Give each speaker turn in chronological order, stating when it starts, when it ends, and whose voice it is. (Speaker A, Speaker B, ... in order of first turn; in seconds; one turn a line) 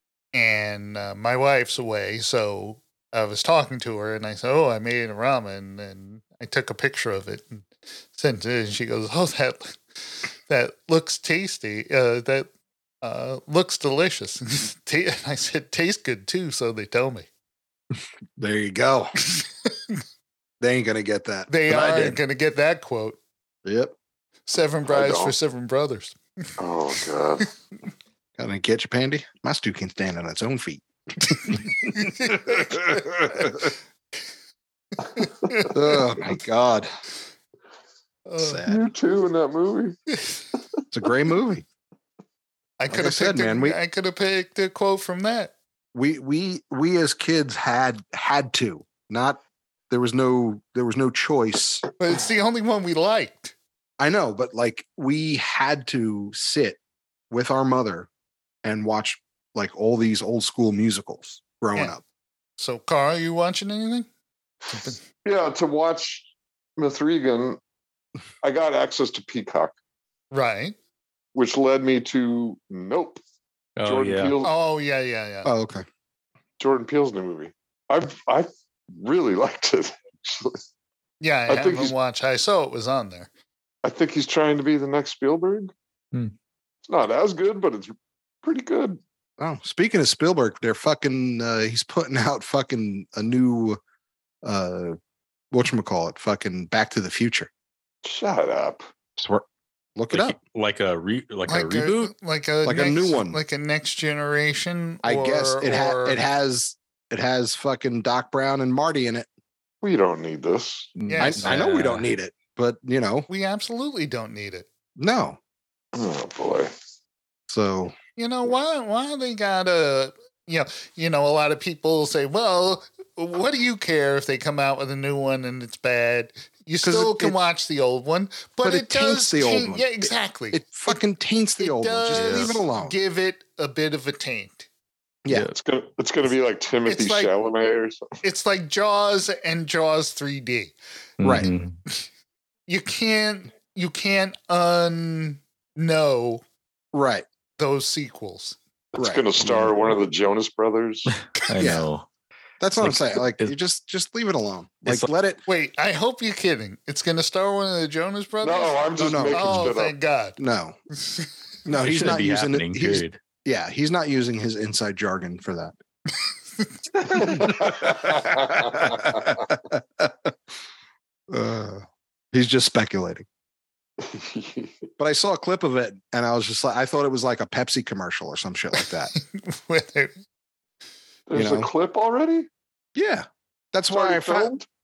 Speaker A: 0.3-9.8
Speaker A: 10.5-12.5
Speaker A: 13.0-17.3
Speaker B: 18.4-19.1
Speaker A: 19.3-19.9
Speaker B: 20.6-22.2
Speaker A: 21.5-23.2
Speaker B: 23.6-23.9
Speaker A: 24.5-26.1
Speaker C: 24.9-25.3
Speaker C: 26.6-27.5
Speaker B: 28.4-33.7
Speaker A: 31.9-33.6
Speaker A: 35.2-35.9
Speaker B: 35.7-36.9
Speaker A: 38.3-38.6
Speaker B: 38.4-38.8
Speaker C: 38.7-40.0
Speaker B: 40.9-41.6
Speaker A: 42.8-45.5
Speaker B: 42.9-43.8
Speaker B: 45.9-49.4
Speaker B: 49.9-51.8
Speaker A: 52.0-53.5
Speaker B: 54.0-56.8
Speaker B: 57.3-58.1
Speaker B: 58.6-62.0
Speaker A: 62.6-64.1
Speaker A: 64.7-65.0
Speaker C: 65.2-67.6
Speaker C: 68.4-69.7
Speaker A: 70.3-70.8
Speaker C: 71.3-73.2
Speaker D: 73.8-74.3
Speaker C: 73.8-74.5
Speaker A: 74.4-75.5
Speaker B: 75.4-75.8
Speaker C: 76.6-80.6
Speaker A: 81.2-83.3
Speaker C: 81.5-81.9
Speaker C: 83.8-85.7
Speaker C: 86.8-89.0
Speaker B: 89.4-93.8
Speaker B: 94.4-95.0
Speaker B: 95.5-97.5
Speaker C: 98.0-98.9
Speaker B: 99.2-99.4
Speaker B: 100.0-100.3
Speaker D: 100.1-102.1
Speaker A: 101.5-106.2
Speaker B: 102.6-103.4
Speaker B: 105.0-109.3
Speaker C: 109.8-110.9
Speaker D: 111.0-112.1
Speaker A: 111.1-111.5
Speaker B: 111.2-113.3
Speaker A: 113.3-114.7
Speaker B: 115.0-115.4
Speaker C: 115.9-116.7
Speaker B: 117.5-117.9
Speaker A: 118.2-131.0
Speaker B: 126.8-127.3
Speaker B: 128.6-133.0
Speaker A: 131.6-134.7
Speaker D: 132.1-132.6
Speaker C: 135.5-138.1
Speaker A: 136.9-137.3
Speaker A: 138.2-140.7
Speaker D: 141.2-141.8
Speaker B: 141.2-141.5
Speaker A: 142.7-146.4
Speaker B: 146.9-147.2
Speaker A: 147.6-148.6
Speaker C: 148.9-151.1
Speaker B: 148.9-149.7
Speaker D: 151.1-152.1
Speaker B: 151.6-151.9
Speaker B: 152.6-155.4
Speaker D: 152.8-153.5
Speaker A: 155.5-160.4
Speaker C: 158.4-159.9
Speaker B: 159.0-159.8
Speaker B: 160.4-160.8
Speaker B: 161.6-165.7
Speaker D: 161.8-163.2
Speaker B: 167.1-170.3
Speaker C: 167.1-169.4
Speaker B: 171.3-173.2
Speaker C: 174.0-174.8
Speaker B: 175.0-179.1
Speaker A: 179.1-180.1
Speaker C: 181.3-182.5
Speaker B: 181.3-181.7
Speaker B: 182.9-184.5
Speaker C: 183.9-184.7